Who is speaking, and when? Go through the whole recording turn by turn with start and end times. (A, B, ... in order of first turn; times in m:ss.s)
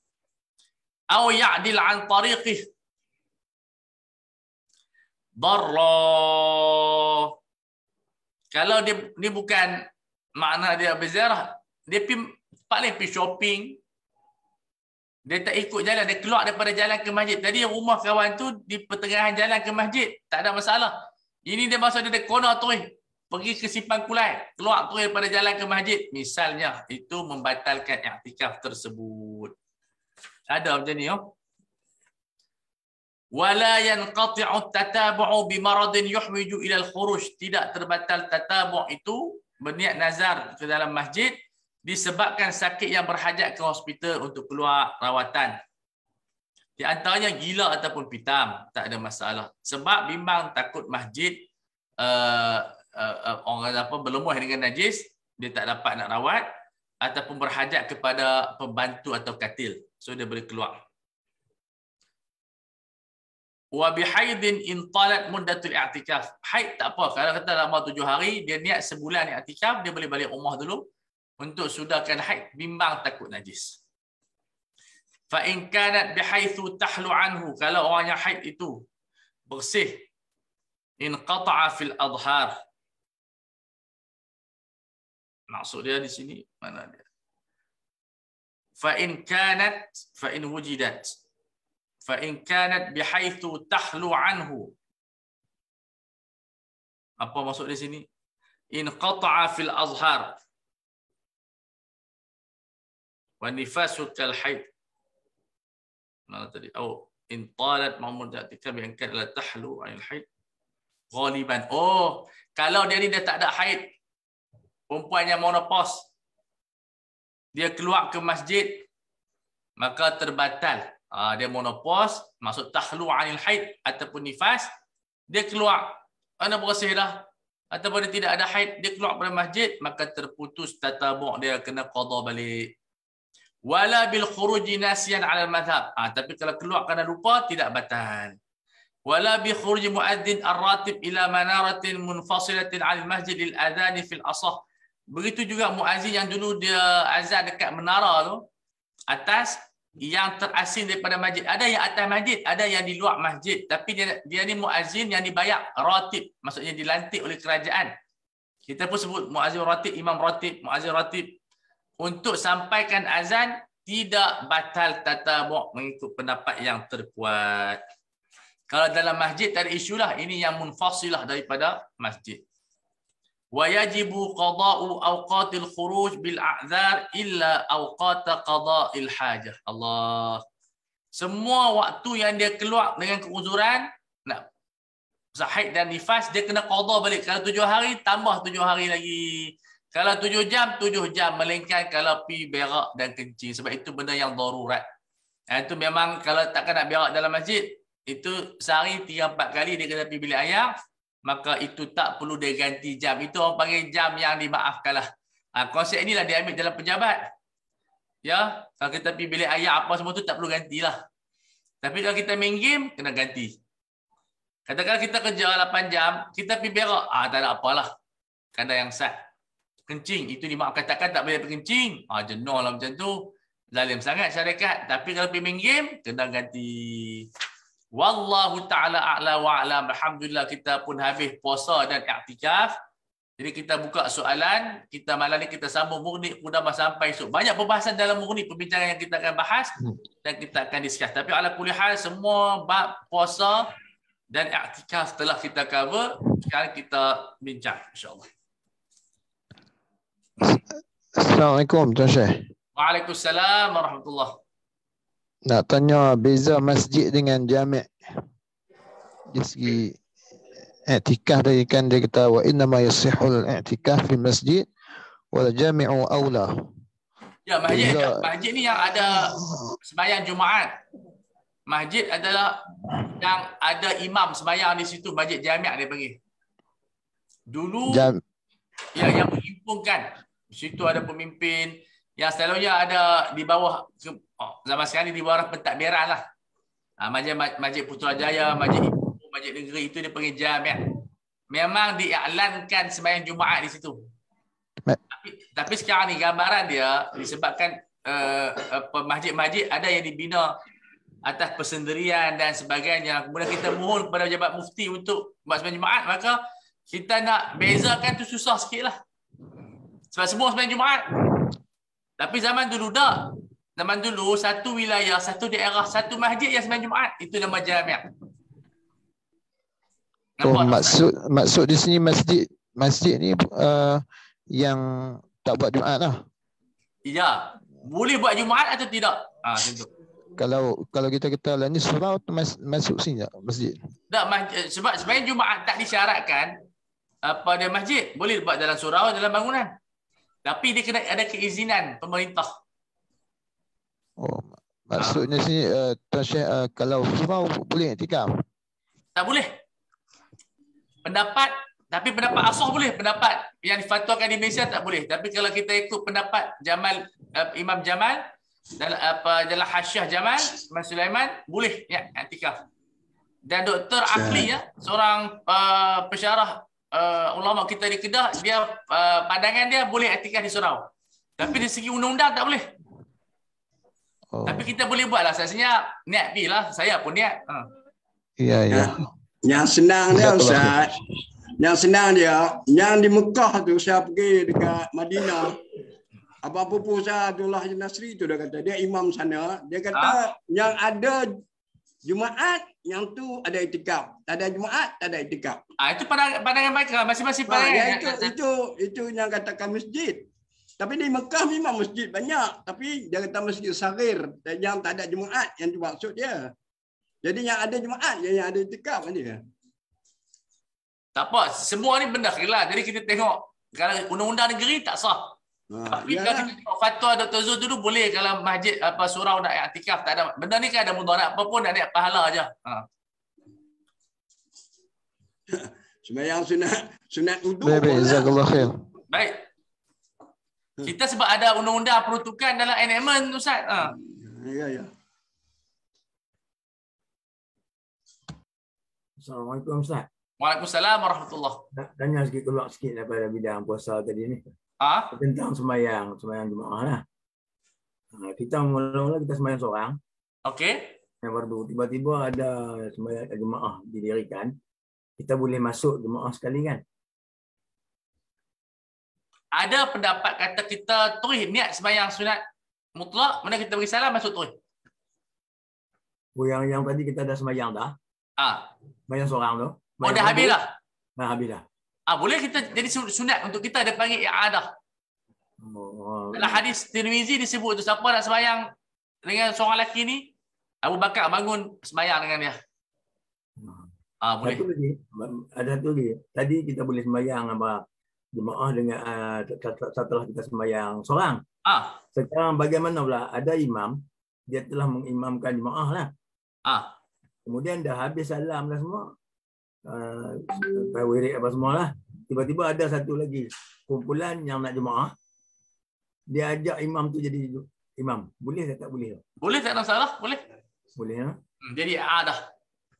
0:01.1-0:02.6 A
0:05.4-0:07.0 A
0:08.5-0:09.8 A
0:10.4-0:13.8 A
0:15.3-0:20.9 A
0:21.5-0:29.5 A
0:30.5-0:31.3 A
0:33.4-0:45.6 A
0:46.8-0:51.4 A
0:52.0-0:56.5 A
0:57.0-1:00.8 A
1:03.8-1:10.8 A
1:11.4-1:13.8 A
1:15.3-1:18.8 A
1:19.5-1:20.0 A
1:21.0-1:22.5 A
1:25.5-1:27.0 A
1:28.8-1:31.1 A
1:32.1-1:34.7 A
1:37.2-1:38.0 A
1:38.7-1:40.3 A
1:43.4-1:44.7 A
1:46.3-1:50.2 A
1:51.1-1:53.9 A
1:54.9-1:56.1 A
1:57.6-1:58.8 A
1:59.8-2:04.7 A
2:05.3-2:12.7 A
2:13.7-2:18.4 A
2:19.1-2:28.4 A
2:29.1-2:37.9 A
2:38.7-2:41.4 A
2:42.0-2:47.8 A
2:48.7-2:52.4 A
2:53.5-3:00.4 A
3:01.2-3:04.4 A
3:05.4-3:09.3 A
3:09.9-3:14.8 A
3:15.5-3:20.7 A
3:21.2-3:27.2 A
3:28.2-3:31.0 A
3:31.8-3:33.5 A
3:34.7-3:37.9 A
3:38.6-3:39.2 A
3:39.9-3:47.3 A
3:48.0-3:52.7 A
3:53.4-4:03.6 A
4:04.3-4:08.3 A
4:11.2-4:12.4 B
4:12.8-4:14.4 A
4:15.5-4:17.9 B
4:19.3-4:20.0 B
4:20.9-4:24.7 B
4:25.3-4:26.6 B
4:27.5-4:30.7 A
4:27.7-4:28.3 B
4:29.5-4:29.7 B
4:31.7-4:32.5 A
4:33.2-4:36.2 A
4:37.5-4:38.1 A
4:37.9-4:38.2 B
4:39.0-4:46.2 A
4:47.0-4:50.9 A
4:51.5-4:54.0 A
4:55.2-5:00.5 A
5:01.2-5:06.4 A
5:06.9-5:09.0 A
5:10.1-5:11.2 A
5:12.2-5:18.1 A
5:20.4-5:21.0 A
5:20.4-5:26.2 B
5:27.1-5:29.9 A
5:30.4-5:33.8 B
5:34.1-5:36.6 A
5:37.2-5:39.7 A
5:40.4-5:42.5 A
5:44.2-5:48.4 B
5:45.0-5:45.2 A
5:49.2-5:49.5 A
5:51.0-5:58.2 A
5:58.8-6:02.6 A
6:03.5-6:12.7 A
6:14.3-6:14.6 B
6:14.5-6:17.7 A
6:18.4-6:19.1 B
6:18.7-6:21.0 C
6:20.1-6:20.9 B
6:21.6-6:25.6 C
6:26.4-6:31.4 C
6:32.0-6:35.6 C
6:35.8-6:38.3 A
6:37.5-6:40.3 C
6:40.8-6:46.5 C
6:47.2-6:49.4 C
6:51.2-6:55.4 A
6:55.7-6:56.5 C
6:55.9-7:02.8 A
7:05.5-7:08.6 C
7:07.6-7:08.8 B
7:09.1-7:09.4 A
7:10.8-7:14.0 A
7:14.2-7:14.9 C
7:19.2-7:20.1 D
7:20.4-7:21.6 A
7:21.8-7:24.4 D
7:24.8-7:25.1 A
7:25.1-7:27.0 D
7:28.1-7:30.0 D
7:30.5-7:30.9 A
7:31.2-7:34.5 D
7:35.2-7:36.8 D
7:39.5-7:42.4 A
7:43.0-7:44.5 A
7:46.4-7:48.0 D
7:48.4-7:48.7 A
7:49.1-7:50.6 D
7:50.0-7:50.7 A
7:51.2-7:51.6 D
7:52.1-7:54.7 A
7:55.6-7:56.6 D
7:56.3-7:58.6 A
7:59.2-8:00.3 A
8:00.8-8:02.6 A
8:03.6-8:03.9 D
8:04.2-8:04.6 A
8:04.4-8:07.8 D
8:08.3-8:11.4 D
8:11.6-8:12.0 A
8:12.1-8:16.1 D
8:16.6-8:16.9 A
8:17.4-8:19.1 D
8:19.9-8:25.1 D
8:26.3-8:29.2 D
8:29.4-8:30.4 A
8:31.0-8:31.4 D
8:31.6-8:32.4 A